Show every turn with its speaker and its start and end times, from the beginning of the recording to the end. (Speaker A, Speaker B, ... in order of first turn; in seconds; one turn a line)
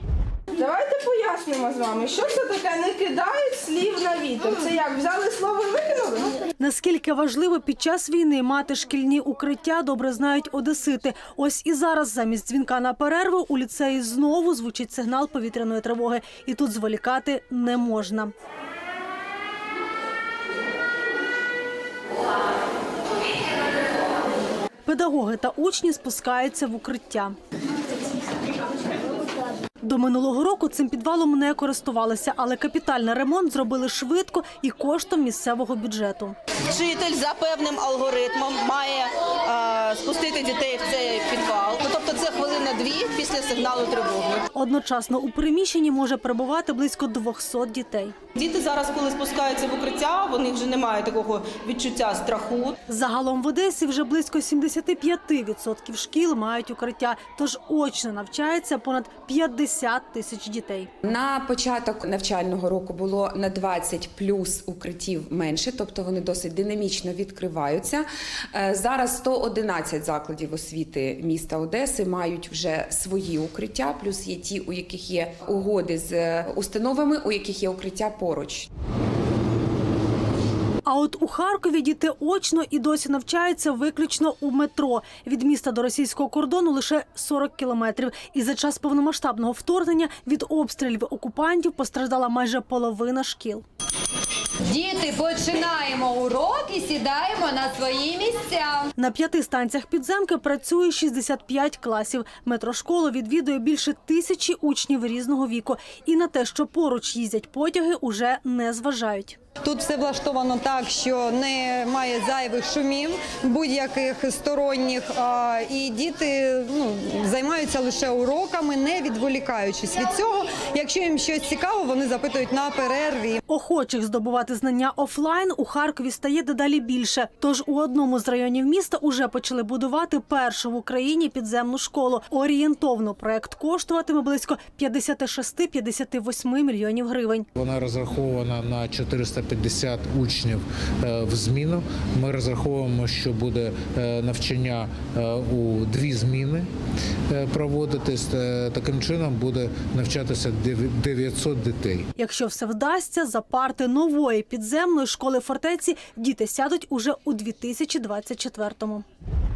Speaker A: 0.6-6.3
Speaker B: 6.6-18.3
Speaker B: 24.9-27.3
Speaker B: 29.8-36.4
Speaker A: 36.7-44.4
Speaker B: 44.5-48.1
Speaker A: 48.4-52.7
Speaker B: 52.9-60.9
Speaker C: 61.0-78.7
Speaker B: 80.8-93.6
Speaker D: 94.7-98.9
Speaker B: 99.0-109.4
Speaker D: 109.6-123.4
Speaker B: 123.5-137.5
Speaker E: 137.6-146.7
Speaker E: 147.3-152.0
Speaker B: 152.2-159.0